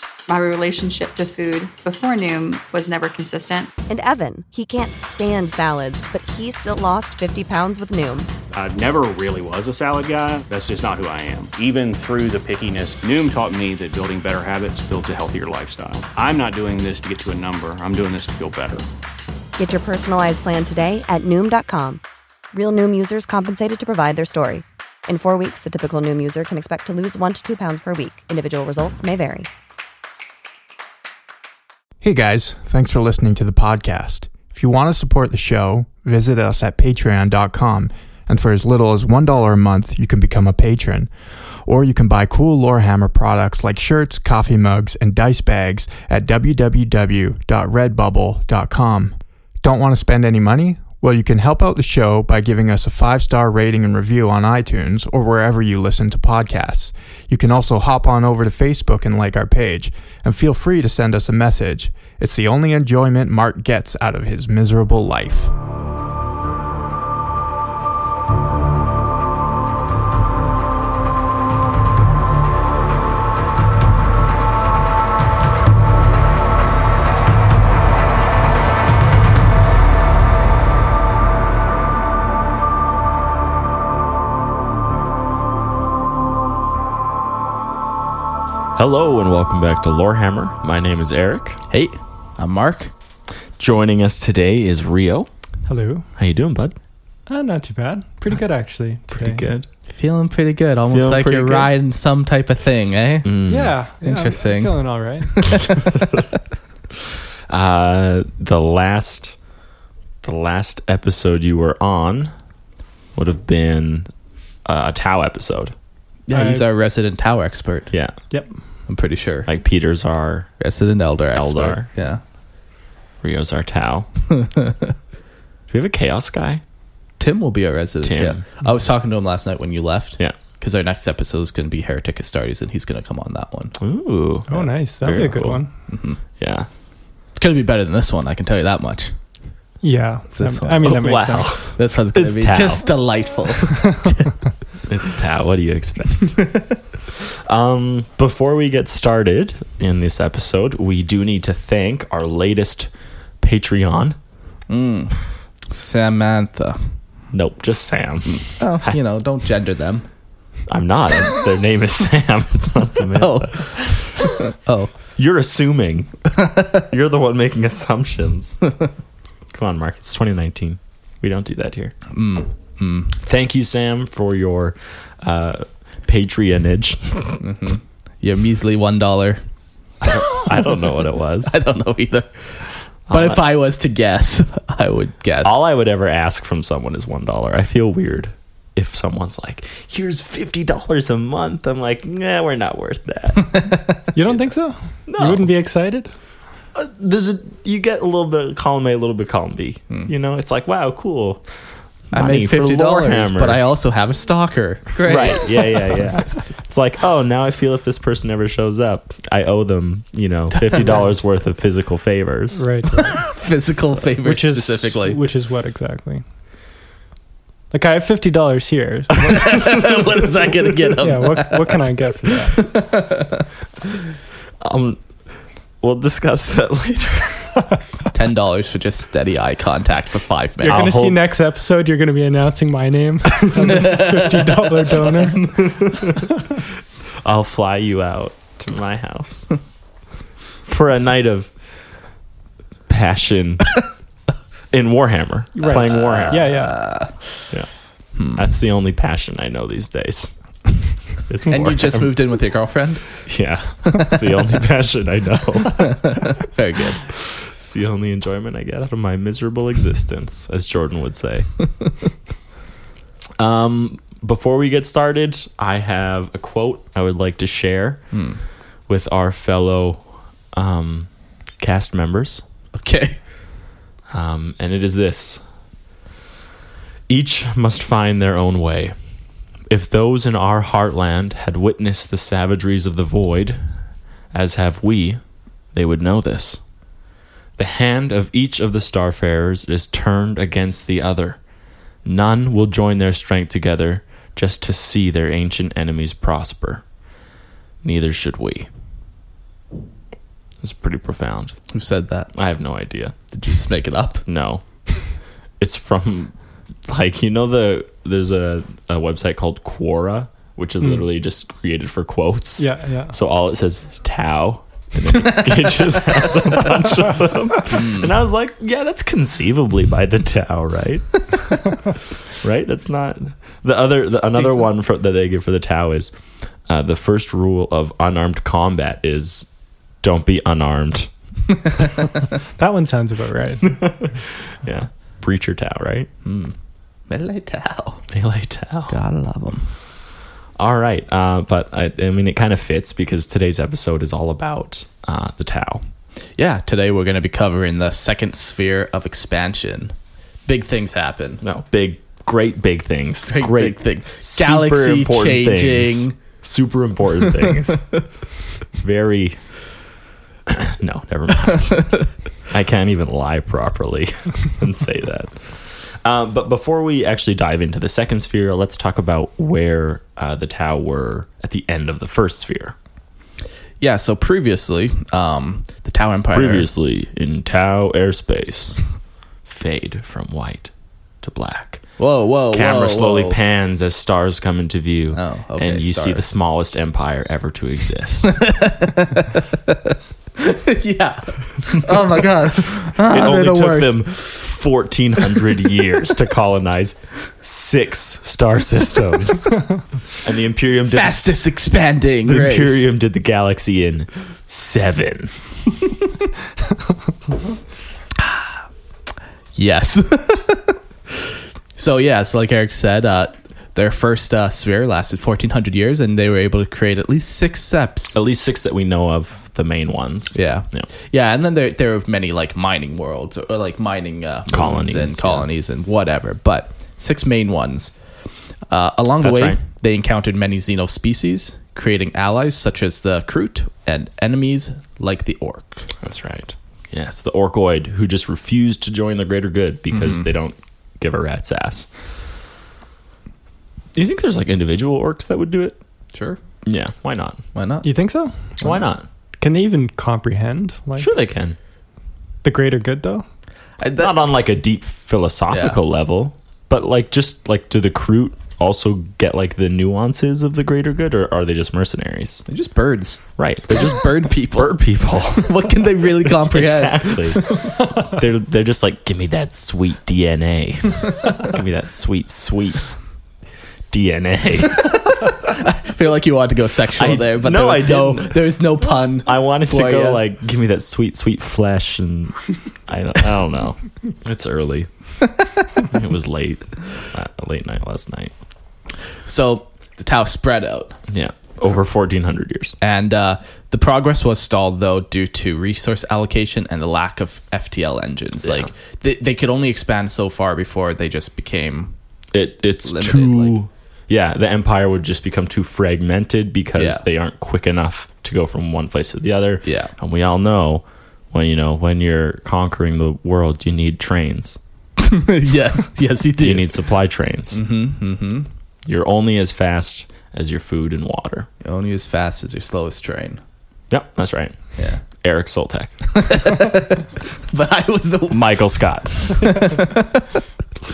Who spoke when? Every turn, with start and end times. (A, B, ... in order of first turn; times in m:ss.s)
0:00.3-0:03.7 A
0:03.9-0:08.3 B
0:08.5-0:18.8 C
0:19.6-0:22.0 B
0:22.5-0:29.5 B
0:32.0-0:41.1 D
0:41.6-1:05.5 D
1:28.8-1:31.6 E
1:31.7-1:32.9 F
1:33.6-1:35.3 E
1:35.6-1:36.1 G
1:36.2-1:36.8 E
1:37.3-1:39.4 G
1:39.1-1:39.6 E
1:39.9-1:43.3 F
1:40.9-1:41.7 E
1:43.2-1:43.8 E
1:43.4-1:45.9 G
1:44.0-1:44.8 F
1:47.5-1:49.3 E
1:50.2-1:52.3 E
1:53.1-1:54.1 E
1:54.6-1:55.7 E
1:56.3-1:57.9 F
1:56.3-1:56.7 G
1:58.3-1:58.5 G
1:58.9-1:59.5 F
1:59.5-2:00.5 E
2:00.6-2:02.2 F
2:01.3-2:01.9 E
2:03.2-2:04.1 E
2:04.4-2:04.9 F
2:05.7-2:06.6 E
2:07.2-2:13.7 F
2:08.0-2:08.4 E
2:13.8-2:15.6 E
2:14.5-2:15.7 G
2:15.9-2:16.2 F
2:16.4-2:16.7 E
2:17.4-2:19.1 F
2:19.8-2:21.6 G
2:20.3-2:24.3 F
2:20.8-2:22.9 E
2:24.9-2:26.5 E
2:27.2-2:32.9 E
2:33.4-2:34.2 E
2:34.7-2:36.9 F
2:37.3-2:39.0 E
2:38.3-2:40.0 F
2:40.7-2:44.2 E
2:43.1-2:44.9 F
2:45.2-2:48.7 E
2:49.5-2:51.9 E
2:52.1-2:53.1 F
2:53.2-2:57.4 E
2:57.4-2:59.4 F
3:00.0-3:01.6 E
3:01.4-3:02.3 F
3:03.1-3:03.4 E
3:03.1-3:05.7 F
3:05.4-3:14.3 E
3:14.1-3:16.1 G
3:15.1-3:15.5 E
3:16.7-3:21.4 E
3:22.1-3:23.6 E
3:22.1-3:26.4 F
3:25.0-3:32.7 E
3:32.5-3:33.3 G
3:33.2-3:35.2 F
3:34.2-3:36.2 G
3:37.7-3:39.6 G
3:39.2-3:41.8 F
3:41.0-3:42.6 G
3:42.3-3:43.5 F
3:44.6-3:45.0 E
3:45.8-3:47.7 E
3:48.1-3:51.0 F
3:50.6-3:55.6 G
3:50.6-3:51.2 E
3:55.5-3:56.3 E
3:57.2-3:59.6 E
4:00.6-4:01.5 E
4:02.9-4:03.8 E
4:04.7-4:06.5 E
4:05.5-4:06.7 G
4:05.6-4:07.4 F
4:08.2-4:08.4 F
4:08.3-4:10.4 E
4:11.2-4:12.1 E
4:11.5-4:13.0 F
4:13.2-4:16.3 E
4:15.7-4:17.0 F
4:17.2-4:21.5 E
4:23.4-4:28.0 E
4:28.1-4:28.4 F
4:28.9-4:31.1 E
4:31.6-4:32.4 E
4:32.7-4:33.2 F
4:34.1-4:35.4 E
4:37.1-4:39.0 E
4:39.7-4:43.6 E
4:44.3-4:45.2 E
4:45.7-4:46.6 E
4:47.6-4:51.4 E
4:52.0-4:56.8 E
4:57.8-4:58.7 E
5:00.6-5:01.6 E
5:01.7-5:02.3 F
5:02.3-5:03.1 E
5:03.3-5:04.2 F
5:04.2-5:04.6 E
5:05.6-5:06.3 E
5:06.8-5:21.6 E
5:12.6-5:13.2 G
5:17.7-5:18.1 F
5:22.4-5:26.1 E
5:24.3-5:24.7 F
5:26.7-5:29.5 E
5:30.0-5:31.1 E
5:32.0-5:34.0 G
5:33.8-5:36.1 E
5:36.2-5:36.5 F
5:37.1-5:38.0 F
5:38.1-5:39.0 E
5:38.9-5:39.7 F
5:40.6-5:45.8 E
5:46.4-5:49.9 F
5:50.4-5:51.4 F
5:51.4-5:58.0 E
5:53.2-5:56.2 F
5:57.4-5:57.7 F
5:58.8-5:59.4 E
6:00.5-6:12.7 E
6:13.8-6:16.7 F
6:16.3-6:18.8 E
6:19.4-6:20.7 E
6:21.2-6:21.8 E
6:22.0-6:23.4 F
6:22.5-6:28.5 E
6:25.1-6:26.2 F
6:28.3-6:34.2 F
6:33.0-6:39.6 E
6:40.2-6:41.3 E
6:40.9-6:42.9 F
6:42.2-6:45.3 E
6:48.2-6:48.6 F
6:49.5-6:58.2 F
6:58.1-7:00.9 E
7:00.3-7:07.9 F
7:04.5-7:05.5 E
7:08.7-7:15.9 F
7:09.2-7:09.6 E
7:16.0-7:21.9 E
7:19.9-7:20.2 F
7:23.9-7:25.8 E
7:26.1-7:26.4 F
7:26.6-7:27.4 E
7:27.5-7:27.9 F
7:27.8-7:28.6 G
7:28.6-7:29.0 E
7:29.4-7:31.1 G
7:31.0-7:31.6 E
7:32.4-7:33.2 G
7:33.8-7:34.1 F
7:34.0-7:42.4 E
7:35.5-7:35.8 F
7:42.5-7:47.4 F
7:43.4-7:52.8 E
7:53.9-7:55.1 E
7:55.2-8:00.2 F
7:57.0-8:04.9 E
8:05.9-8:08.3 E
8:09.2-8:11.0 F
8:11.1-8:12.8 E
8:12.8-8:21.9 F
8:22.3-8:34.6 E
8:22.8-8:23.6 F
8:26.8-8:27.0 F
8:29.6-8:29.9 F
8:35.0-8:36.8 F
8:36.4-8:37.6 E
8:37.5-8:38.5 F
8:38.8-8:41.5 E
8:41.6-8:43.4 F
8:43.9-8:44.6 E
8:44.8-8:45.0 F
8:45.2-8:46.2 E
8:46.1-8:48.5 F
8:48.3-8:49.8 E
8:49.2-8:50.2 F